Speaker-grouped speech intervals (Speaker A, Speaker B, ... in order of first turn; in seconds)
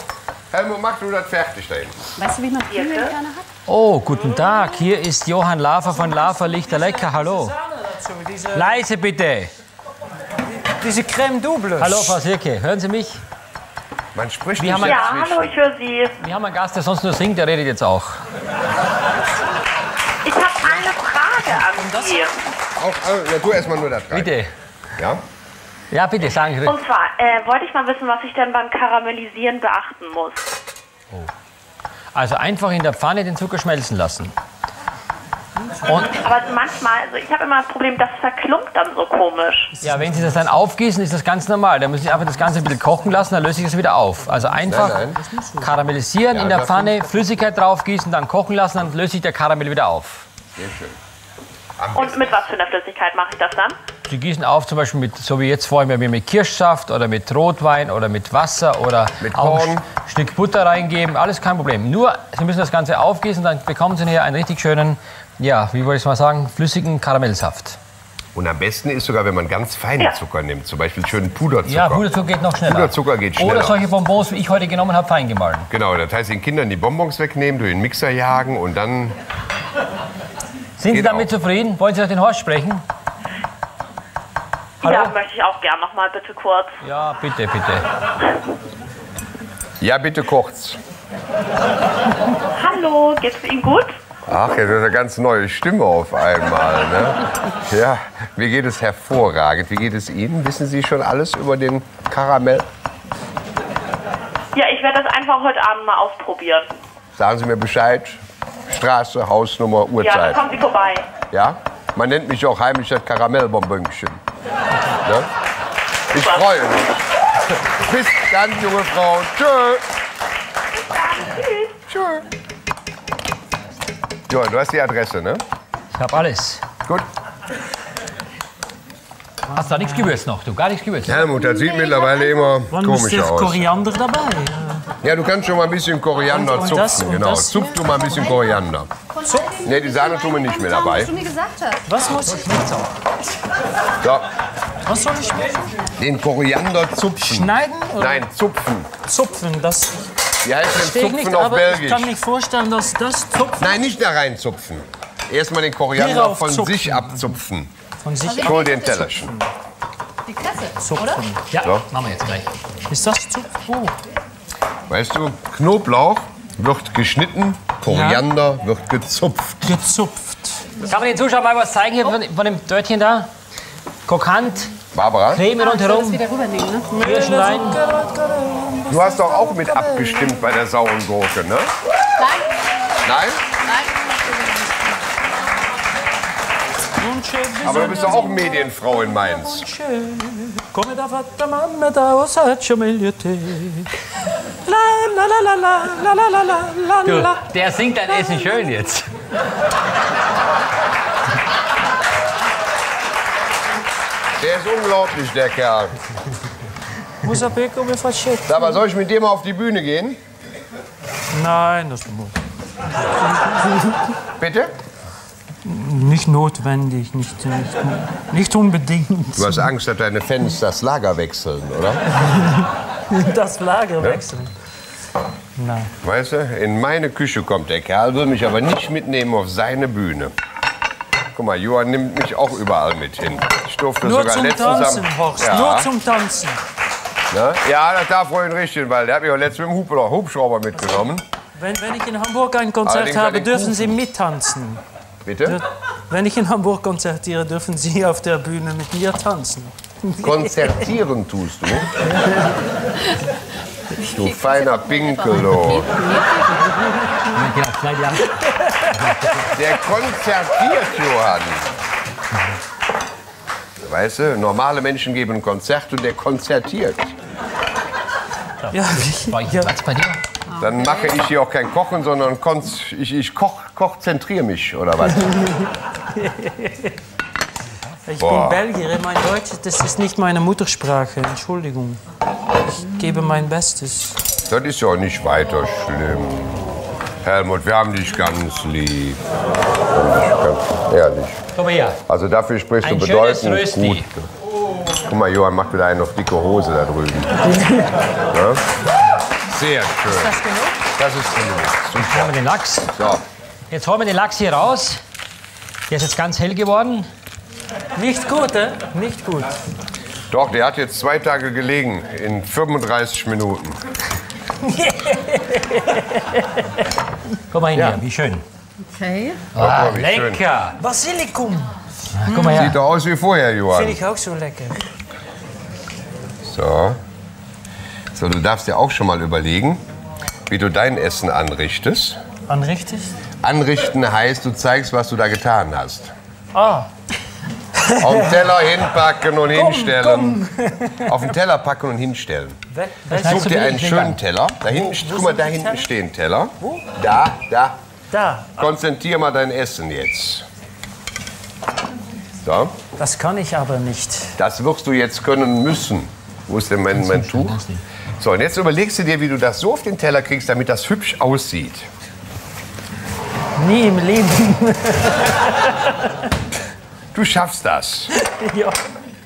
Speaker A: 0.5-2.0, 14.2-15.6, 22.8-24.3, 25.0-25.2, 44.7-45.2, 46.3-47.4, 50.6-51.0, 51.8-52.2, 59.2-59.9, 68.3-72.1, 72.6-73.8, 75.7-79.2, 80.9-81.3, 89.8-90.8, 94.3-102.7, 107.2-110.4, 111.3-114.2, 114.9-115.3, 116.1-119.8, 121.9-122.2, 124.3-125.4, 131.1-133.7, 135.0-138.9, 139.6-141.1, 144.0-144.3, 146.0-148.9, 150.4-152.2, 153.6-157.7, 158.4-159.3, 161.6-161.8, 164.9-169.7, 174.9-175.5, 178.9-181.7, 183.0-183.4, 187.6-189.7, 204.4-206.0, 208.5-210.2, 214.4-214.7, 219.4-222.0, 226.0-230.3, 231.3-235.9, 237.3-241.2, 242.8-244.0, 245.2-245.6, 250.2-252.0, 254.0-256.0, 259.5-261.8, 263.8-267.1, 270.6-275.4, 278.2-278.6, 284.5-289.2, 289.9-291.4, 292.1-294.3, 295.0-297.5, 298.3-298.6, 299.4-300.4, 301.0-302.4, 302.9-303.2, 310.3-313.8, 319.6-320.4, 322.3-324.0, 326.4-327.0, 328.1-329.8, 330.5-332.2, 333.4-336.1, 338.0-340.4, 341.0-342.6, 343.1-347.8, 348.6-350.5, 352.4-352.7, 354.4-357.6, 358.2-361.9, 367.1-368.1
Speaker B: 2.2-3.5, 131.1-132.5, 138.1-138.6, 139.2-141.8, 158.2-159.1, 160.3-161.2, 175.5-176.9, 182.2-182.5, 183.7-184.6, 254.0-256.7, 270.5-271.1, 318.8-319.4, 322.3-322.6
Speaker C: 2.7-3.1, 14.8-16.1, 20.2-22.4, 26.6-30.5, 36.0-39.7, 51.9-53.8, 84.8-86.8, 92.5-94.0, 104.5-106.7, 110.0-111.1, 116.2-116.5, 120.8-121.8
Speaker D: 3.7-7.5, 8.5-9.5, 11.8-13.2, 14.6-15.1, 16.2-18.2, 24.1-24.5, 25.9-26.8, 32.1-34.3, 35.9-36.1, 39.8-45.0, 45.6-50.3, 54.1-67.8, 71.7-75.7, 80.8-82.8, 84.8-85.2, 86.8-87.9, 125.9-126.7, 129.5-131.3, 142.3-142.7, 161.5-162.5, 170.8-173.3, 174.1-174.8, 175.3-176.2, 177.0-177.8, 197.1-199.1, 257.3-258.4, 258.9-259.4, 268.6-270.2, 291.6-292.0, 292.8-294.1, 302.1-302.9, 303.7-305.0, 305.9-307.1, 317.5-318.4, 319.5-320.8, 322.1-322.8, 343.1-344.2, 356.9-357.8
Speaker E: 6.0-8.8, 10.6-12.2, 39.8-40.6, 44.5-45.8, 132.7-134.9, 136.2-138.0, 139.2-139.6, 141.9-142.9, 144.9-145.7, 147.2-148.3, 149.0-150.1, 150.7-153.8, 155.9-157.3, 158.0-159.5, 160.8-161.4, 162.9-163.9, 167.9-168.2, 169.6-170.7, 176.9-180.5, 187.0-193.9, 194.7-197.5, 207.2-208.8, 211.3-212.4, 215.6-219.7, 222.3-224.5, 225.6-225.9, 234.0-236.6, 240.8-244.8, 245.5-250.7, 258.7-259.5, 268.7-269.7, 275.2-275.5, 276.1-276.9, 278.1-282.0, 282.7-284.2, 300.1-300.9, 308.0-309.5, 314.6-316.6, 320.8-321.7, 323.7-324.9, 332.5-333.1, 336.5-336.9, 337.8-338.5, 339.5-341.2, 342.7-343.8, 344.6-345.9, 348.1-348.6, 353.0-354.4, 363.6-365.9, 368.1-368.8